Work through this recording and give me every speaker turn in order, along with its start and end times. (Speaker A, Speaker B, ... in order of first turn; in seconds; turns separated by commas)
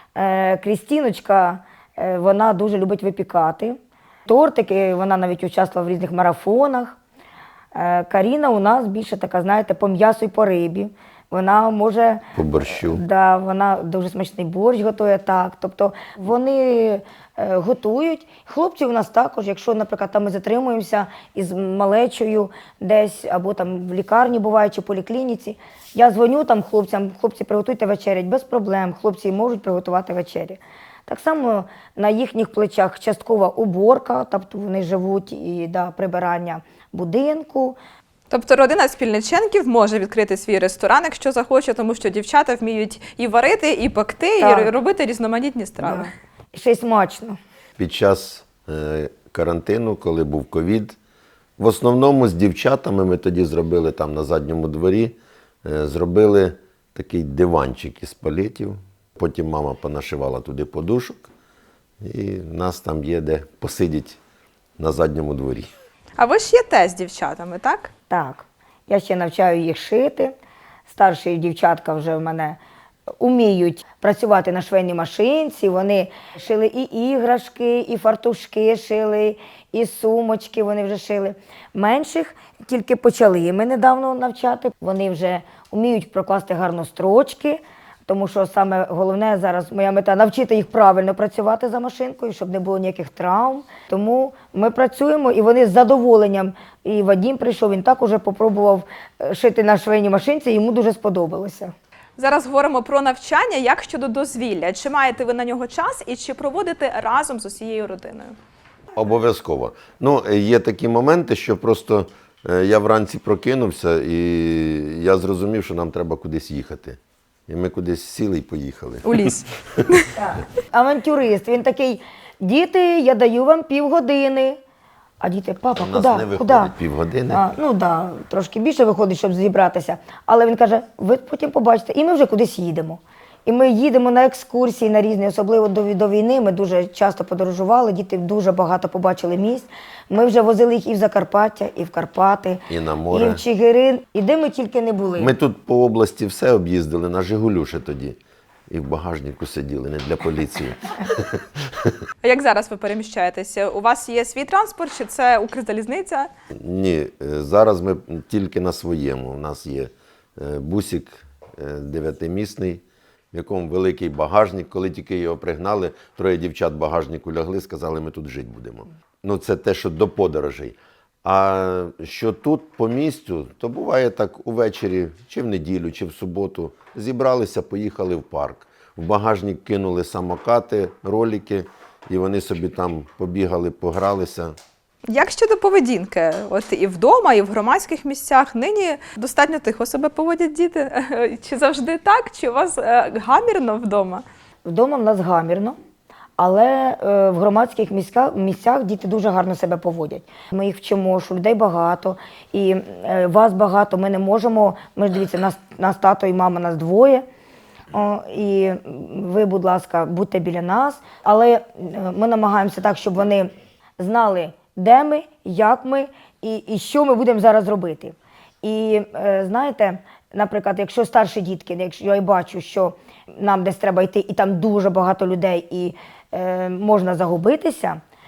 Speaker A: 0.1-7.0, Speaker A: 7.7-37.8, Speaker B: 12.3-13.0, Speaker C: 38.3-46.1, Speaker A: 44.4-44.7, Speaker A: 45.8-47.4, Speaker B: 47.8-51.0, Speaker B: 51.6-61.3, Speaker B: 62.0-64.2, Speaker B: 64.8-65.7, Speaker C: 66.2-67.9, Speaker A: 68.1-70.3, Speaker A: 70.9-72.6, Speaker A: 73.2-101.7, Speaker C: 102.2-108.3, Speaker B: 108.9-119.8, Speaker C: 119.0-120.1, Speaker A: 120.1-124.6, Speaker A: 125.2-126.7, Speaker B: 125.8-127.5, Speaker A: 127.3-145.3, Speaker B: 142.7-143.4, Speaker B: 145.2-152.0, Speaker C: 152.2-156.3, Speaker B: 156.6-184.5, Speaker C: 185.1-194.2, Speaker A: 194.7-195.8, Speaker A: 196.4-207.2, Speaker A: 207.9-228.0